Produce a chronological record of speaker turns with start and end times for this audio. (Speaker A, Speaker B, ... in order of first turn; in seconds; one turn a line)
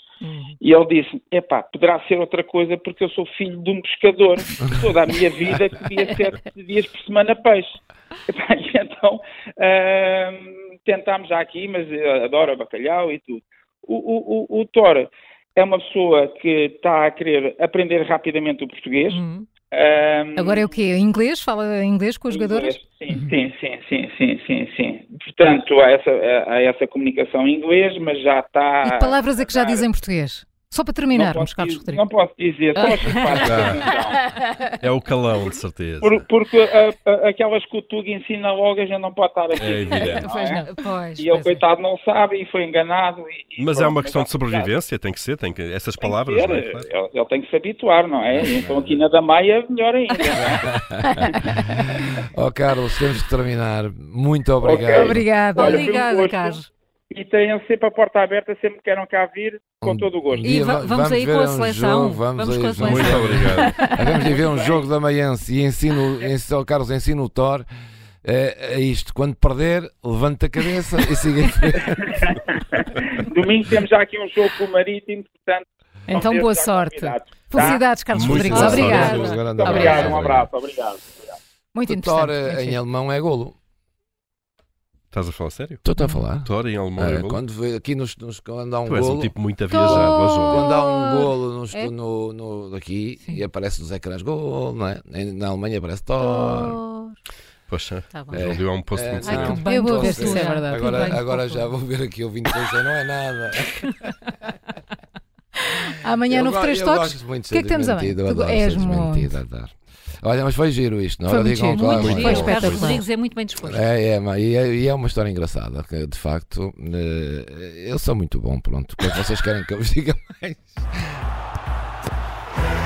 Speaker A: 0.2-0.6
Speaker B: 0.6-20.7
Speaker A: 19.1-19.5
Speaker C: 20.4-22.8
Speaker B: 22.3-29.9
Speaker C: 28.8-32.0
Speaker B: 31.1-34.2
Speaker C: 32.8-34.7
Speaker D: 33.3-33.8
Speaker D: 34.8-36.2
Speaker B: 36.0-40.6
Speaker D: 39.6-40.2
Speaker C: 39.9-40.7
Speaker A: 40.6-41.6
Speaker B: 41.2-44.7
Speaker D: 43.6-46.9
Speaker B: 46.0-50.7
Speaker D: 48.4-48.8
Speaker E: 50.4-55.2
Speaker B: 54.6-56.6
Speaker C: 54.9-55.9
Speaker A: 55.5-56.7
Speaker B: 57.1-60.5
Speaker E: 59.8-67.7
Speaker A: 60.4-63.6
Speaker D: 62.8-63.7
Speaker C: 63.6-63.9
Speaker B: 64.2-64.9
Speaker E: 68.2-72.2
Speaker B: 72.1-77.8
Speaker C: 76.1-80.2
Speaker D: 78.1-80.3
Speaker E: 78.1-80.5
Speaker A: 78.6-79.1
Speaker B: 78.9-81.4
Speaker C: 81.7-82.8
Speaker E: 81.9-83.6
Speaker D: 85.1-85.8
Speaker E: 85.8-89.3
Speaker D: 86.4-87.4
Speaker D: 88.9-90.7
Speaker A: 89.7-91.9
Speaker E: 89.8-96.8
Speaker A: 96.2-97.2
Speaker D: 97.7-99.6
Speaker E: 98.3-103.9
Speaker A: 99.3-101.7
Speaker C: 99.3-101.2
Speaker C: 105.9-109.3
Speaker E: 106.3-112.6
Speaker C: 111.3-113.0
Speaker A: 111.8-113.9
Speaker D: 111.9-113.0
Speaker E: 113.6-120.8